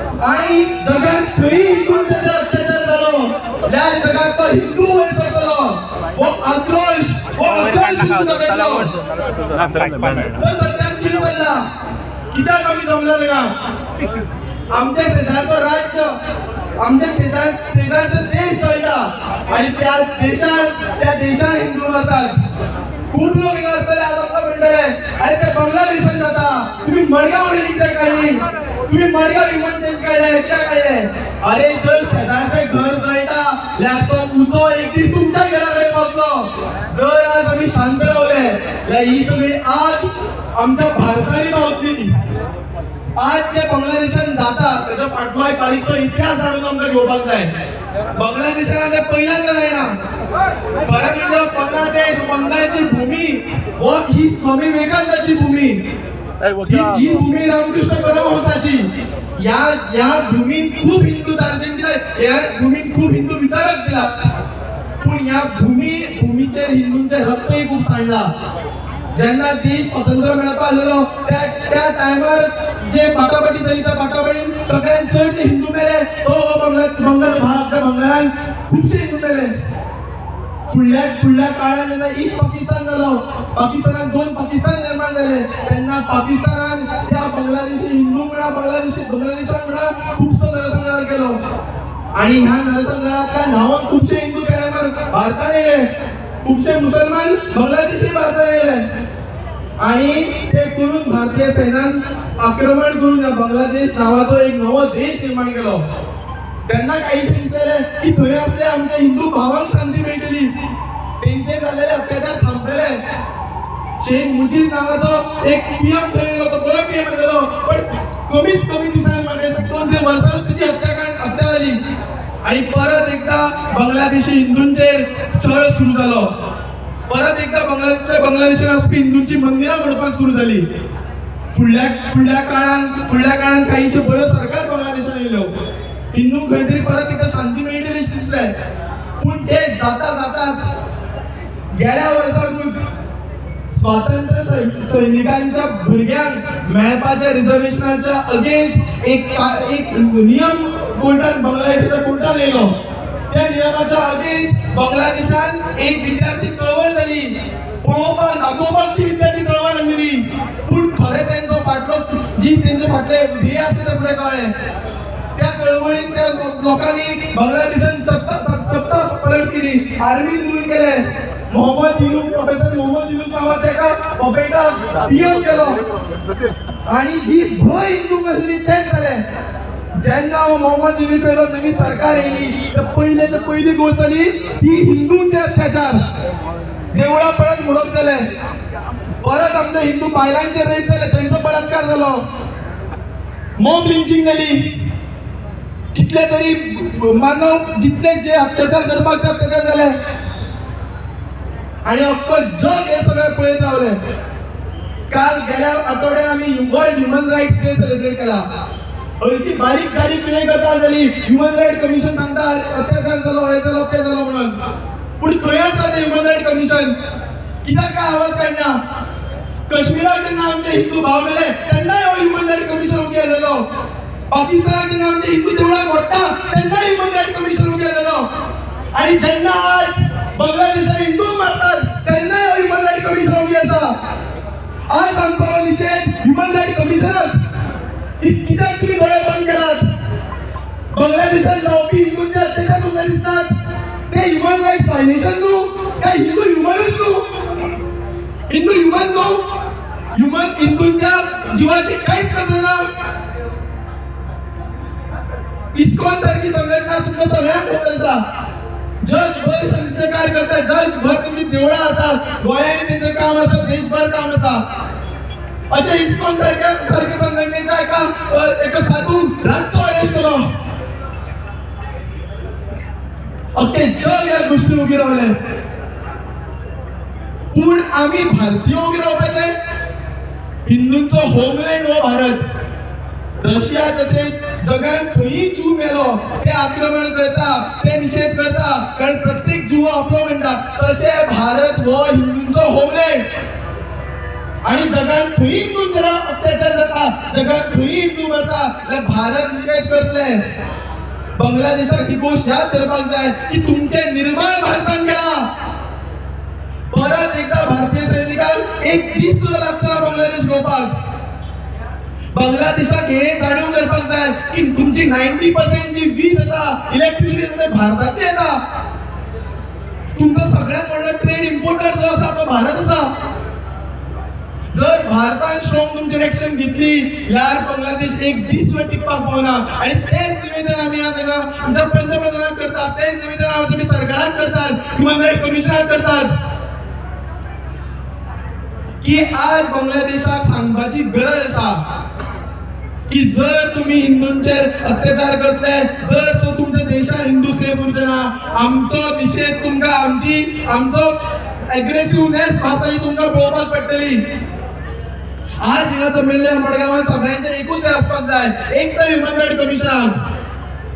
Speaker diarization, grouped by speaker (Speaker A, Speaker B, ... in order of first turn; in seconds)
Speaker A: 0.2-8.9, 10.2-11.6, 12.3-13.5, 14.7-16.1, 16.8-22.4, 23.1-42.1, 43.2-47.5, 48.1-49.9, 50.8-55.8, 56.6-64.1, 65.0-68.3, 69.1-79.5, 80.7-91.4, 92.2-95.9, 96.4-98.8, 99.8-105.8, 106.7-110.5, 111.2-113.0, 114.0-121.8, 122.4-126.3, 127.1-130.7, 131.5-135.5, 136.1-138.5, 139.2-140.6, 141.7-142.8, 143.7-152.7, 153.3-157.3, 157.8-164.5, 165.4-171.0, 171.5-175.8, 176.9-179.2, 180.0-186.0, 186.9-188.2, 189.2-192.2, 193.6-194.7, 195.9-199.9, 201.8-204.0, 205.1-208.4, 209.2-214.6, 215.2-216.9, 217.6-218.8, 219.7-223.7, 224.3-228.3, 228.9-233.9, 234.9-237.3, 238.2-239.8, 240.9-243.5, 244.1-247.2, 248.5-249.4, 250.2-252.9, 255.7-258.2, 259.0-264.6, 265.7-270.4, 273.6-275.3, 277.5-279.5, 280.7-282.4, 283.4-293.2, 294.6-300.4, 301.4-305.5, 306.9-310.9, 312.3-318.6, 320.1-323.1, 324.7-336.3, 339.0-341.8, 343.1-351.1, 351.7-354.2, 355.6-360.2